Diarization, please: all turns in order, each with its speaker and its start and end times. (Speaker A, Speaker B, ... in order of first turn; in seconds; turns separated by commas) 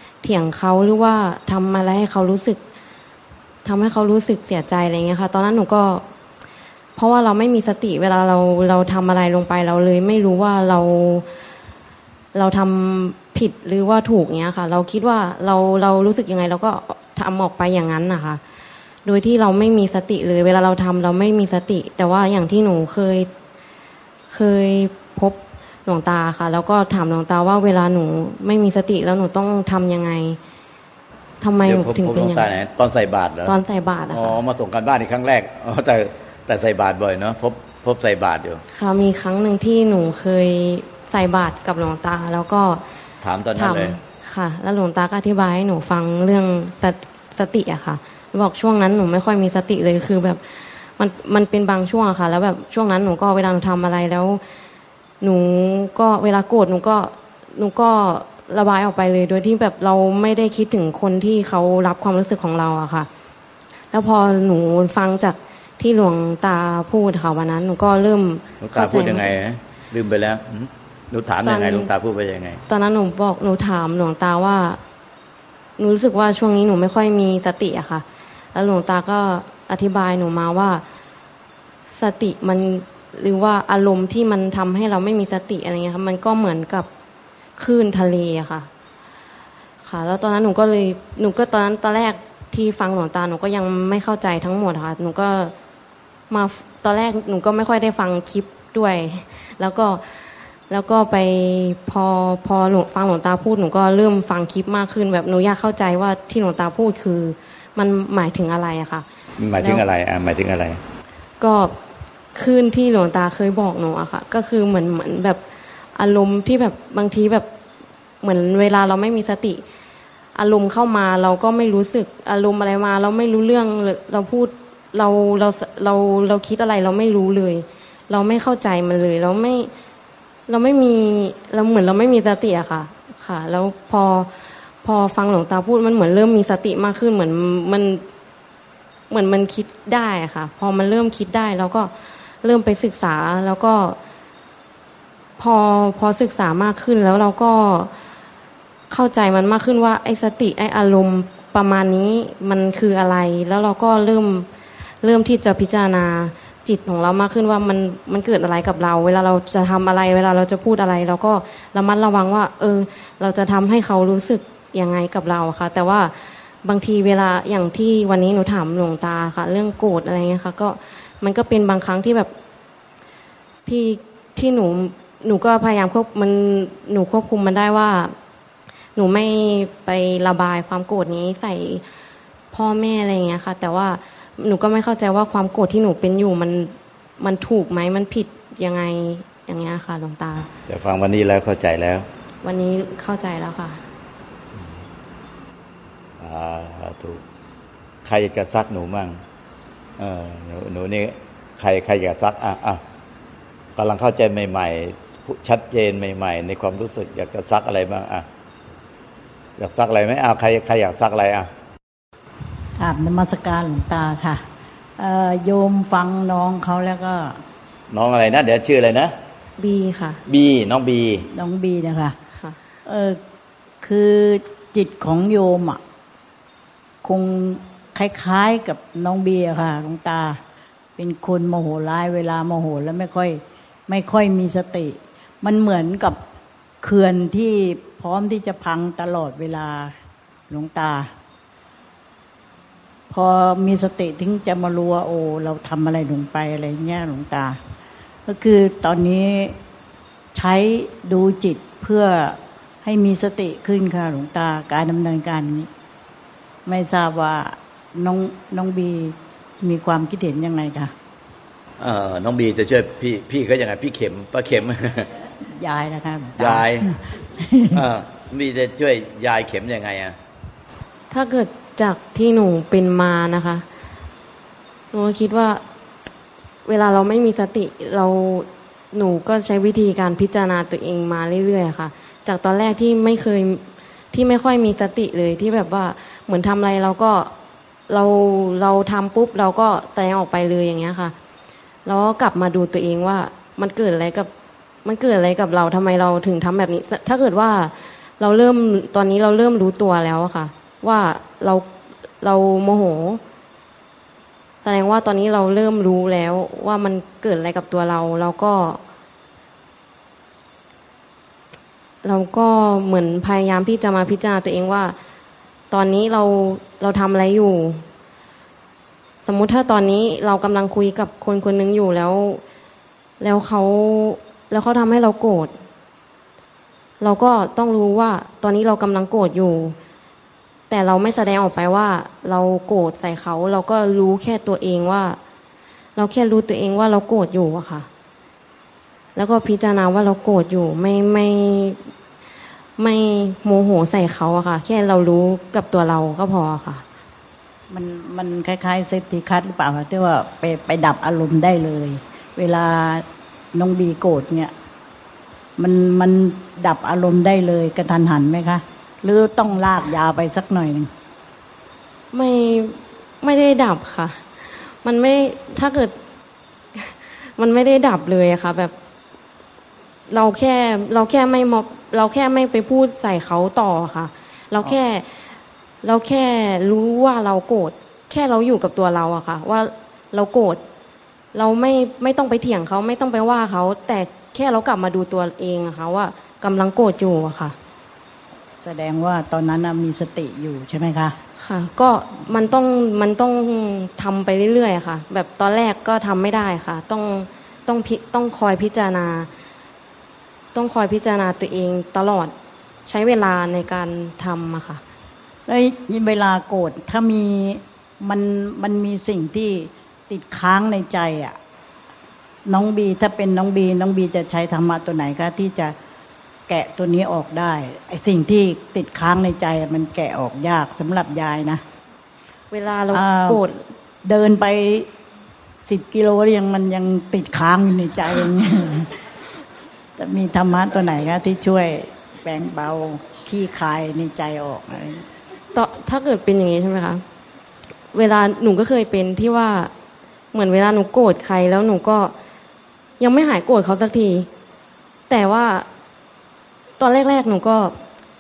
Speaker A: 0.2-2.6, Speaker A: 3.6-6.0, Speaker A: 7.0-11.3, Speaker A: 12.3-18.4, Speaker A: 19.1-23.3, Speaker A: 24.3-30.4, Speaker A: 31.4-32.5, Speaker B: 31.6-33.6, Speaker A: 33.5-34.4, Speaker B: 34.1-38.6, Speaker A: 38.7-42.8, Speaker B: 43.2-44.0, Speaker A: 43.5-54.4, Speaker A: 55.2-63.1, Speaker A: 63.9-69.3, Speaker B: 68.6-72.6, Speaker A: 71.5-71.9, Speaker A: 72.7-74.8, Speaker A: 75.8-80.8, Speaker A: 81.9-86.9, Speaker A: 87.6-88.7, Speaker A: 89.8-95.5, Speaker A: 96.3-109.1, Speaker B: 109.4-110.8, Speaker A: 109.6-109.9, Speaker A: 111.4-111.8, Speaker A: 112.3-115.4, Speaker A: 116.0-117.5, Speaker A: 118.2-119.6, Speaker A: 120.3-129.7, Speaker A: 130.5-138.0, Speaker A: 139.1-144.0, Speaker A: 145.4-147.9, Speaker A: 148.9-154.5, Speaker A: 155.0-172.3, Speaker A: 173.7-178.1, Speaker A: 179.0-181.8, Speaker A: 182.5-190.5, Speaker B: 190.7-192.1, Speaker A: 192.4-193.8, Speaker B: 196.2-197.2, Speaker B: 198.1-199.2, Speaker B: 200.0-202.8, Speaker B: 203.8-208.3, Speaker B: 209.6-211.5, Speaker C: 212.8-214.4, Speaker C: 215.0-217.4, Speaker B: 217.9-219.1, Speaker A: 219.6-220.2, Speaker B: 220.3-221.3, Speaker C: 221.3-222.2, Speaker C: 222.9-223.2, Speaker C: 223.8-225.8, Speaker C: 227.0-230.4, Speaker C: 231.0-236.2, Speaker C: 236.8-239.9, Speaker C: 240.5-241.1, Speaker C: 243.1-247.6, Speaker C: 248.3-249.6, Speaker C: 250.3-255.7, Speaker C: 256.7-260.9, Speaker B: 261.8-265.1, Speaker C: 265.6-267.8, Speaker B: 266.4-266.9, Speaker B: 267.7-270.2, Speaker A: 271.1-273.6, Speaker A: 274.9-275.6, Speaker A: 276.6-287.3, Speaker A: 287.9-291.1, Speaker A: 291.9-294.3, Speaker A: 294.8-303.2, Speaker A: 304.6-308.8, Speaker A: 312.0-315.0, Speaker A: 315.7-317.8, Speaker A: 319.2-322.4, Speaker A: 323.2-325.5, Speaker A: 327.0-329.8, Speaker A: 330.7-335.2, Speaker A: 336.0-337.9, Speaker A: 339.2-341.8, Speaker A: 342.8-346.8, Speaker C: 347.7-354.5, Speaker C: 355.6-360.9, Speaker A: 362.1-365.9, Speaker A: 366.8-368.7, Speaker A: 370.1-375.2, Speaker A: 375.8-380.6, Speaker A: 381.3-387.6, Speaker C: 388.6-391.2, Speaker A: 391.4-399.3, Speaker A: 400.5-402.3, Speaker A: 402.9-404.8, Speaker C: 405.5-411.4, Speaker C: 412.5-415.8, Speaker C: 416.5-421.6, Speaker A: 422.5-423.6, Speaker C: 422.9-423.4, Speaker C: 424.1-424.9, Speaker C: 425.6-428.9, Speaker C: 430.0-435.0, Speaker A: 435.5-437.0, Speaker A: 437.9-439.7, Speaker A: 440.3-442.1, Speaker A: 443.0-444.3, Speaker A: 445.1-445.7, Speaker A: 446.8-447.8